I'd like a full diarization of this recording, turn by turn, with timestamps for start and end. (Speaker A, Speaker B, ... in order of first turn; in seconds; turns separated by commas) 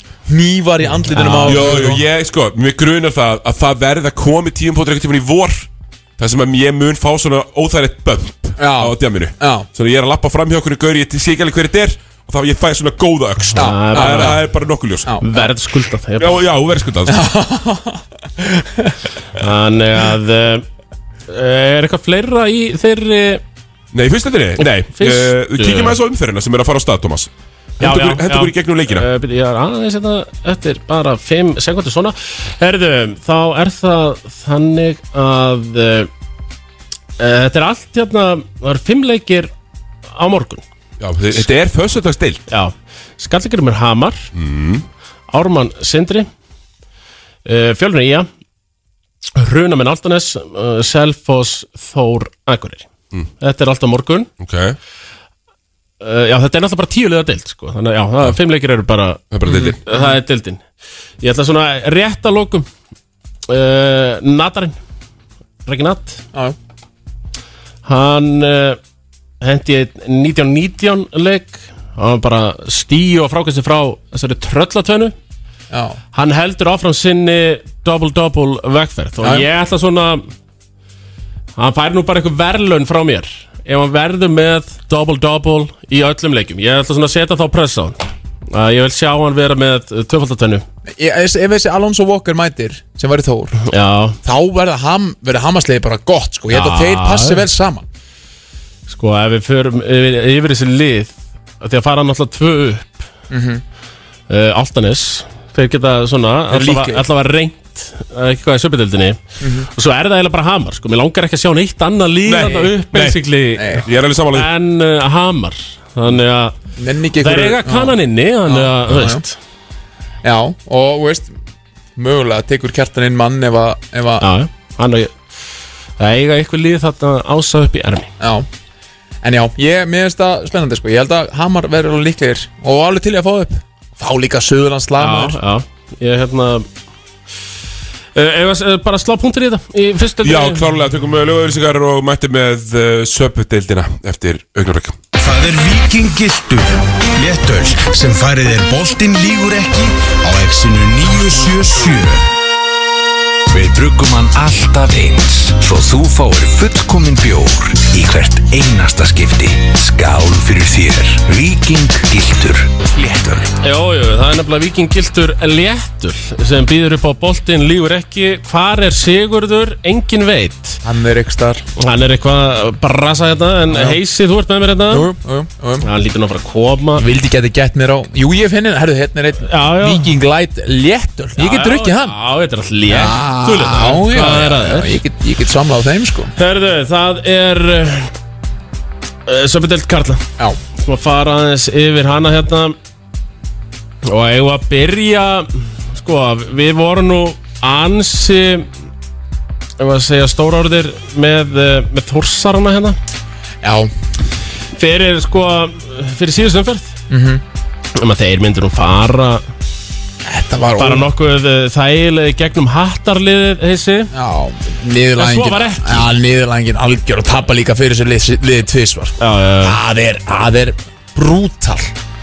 Speaker A: 0.3-2.0, Speaker B: 1.1-2.0, Speaker C: 1.4-15.2, Speaker A: 8.6-9.7, Speaker A: 13.6-14.4, Speaker B: 13.6-14.4, Speaker B: 15.2-16.4, Speaker C: 16.2-17.2, Speaker A: 17.1-18.9, Speaker B: 19.4-20.6, Speaker B: 21.3-23.4, Speaker C: 23.9-29.1, Speaker B: 24.6-26.0, Speaker B: 27.8-36.1, Speaker B: 37.2-39.5, Speaker B: 40.1-40.6, Speaker C: 41.0-42.4, Speaker B: 42.5-44.3, Speaker C: 44.3-44.9, Speaker B: 45.3-46.3, Speaker B: 47.5-48.3, Speaker B: 49.4-52.9, Speaker B: 53.4-54.3, Speaker C: 54.4-54.8, Speaker B: 56.0-60.6, Speaker C: 59.3-59.8, Speaker A: 59.5-60.2, Speaker B: 61.2-62.7, Speaker B: 63.5-64.8, Speaker B: 65.7-66.2, Speaker B: 67.8-68.8, Speaker B: 69.4-75.2, Speaker A: 75.7-76.0, Speaker B: 76.1-80.3, Speaker A: 79.2-79.5, Speaker B: 81.6-90.6, Speaker A: 91.0-93.6, Speaker B: 93.6-94.2, Speaker A: 94.2-97.8, Speaker B: 96.5-97.5, Speaker B: 98.9-103.1, Speaker A: 103.3-103.6, Speaker B: 104.3-116.6, Speaker A: 106.5-107.0, Speaker A: 109.4-109.7, Speaker C: 112.2-113.2, Speaker A: 113.6-113.9, Speaker C: 113.8-114.5, Speaker A: 116.8-118.0, Speaker B: 117.2-119.4, Speaker A: 118.5-119.2, Speaker A: 120.2-121.3, Speaker A: 122.0-124.3, Speaker B: 124.2-125.2, Speaker B: 126.0-128.1, Speaker A: 128.2-128.5, Speaker A: 129.2-135.4, Speaker B: 135.0-136.7, Speaker B: 138.1-140.7, Speaker C: 140.2-145.0, Speaker D: 145.2-152.3, Speaker D: 153.5-163.5, Speaker B: 163.6-170.8, Speaker A: 170.8-171.6, Speaker B: 171.8-175.1, Speaker A: 173.7-174.0, Speaker A: 174.9-175.9, Speaker B: 175.8-177.1, Speaker A: 177.0-182.2, Speaker B: 179.4-180.1, Speaker B: 181.4-185.0, Speaker A: 182.9-186.3, Speaker B: 186.4-188.1, Speaker B: 189.3-190.2, Speaker B: 190.8-192.8, Speaker B: 194.0-198.7, Speaker B: 199.8-203.0, Speaker A: 203.6-203.9, Speaker B: 204.8-206.9, Speaker A: 207.1-207.4, Speaker B: 207.9-209.4, Speaker A: 210.2-211.1, Speaker B: 210.8-214.1, Speaker A: 214.1-221.9, Speaker B: 215.2-216.1, Speaker B: 219.2-219.8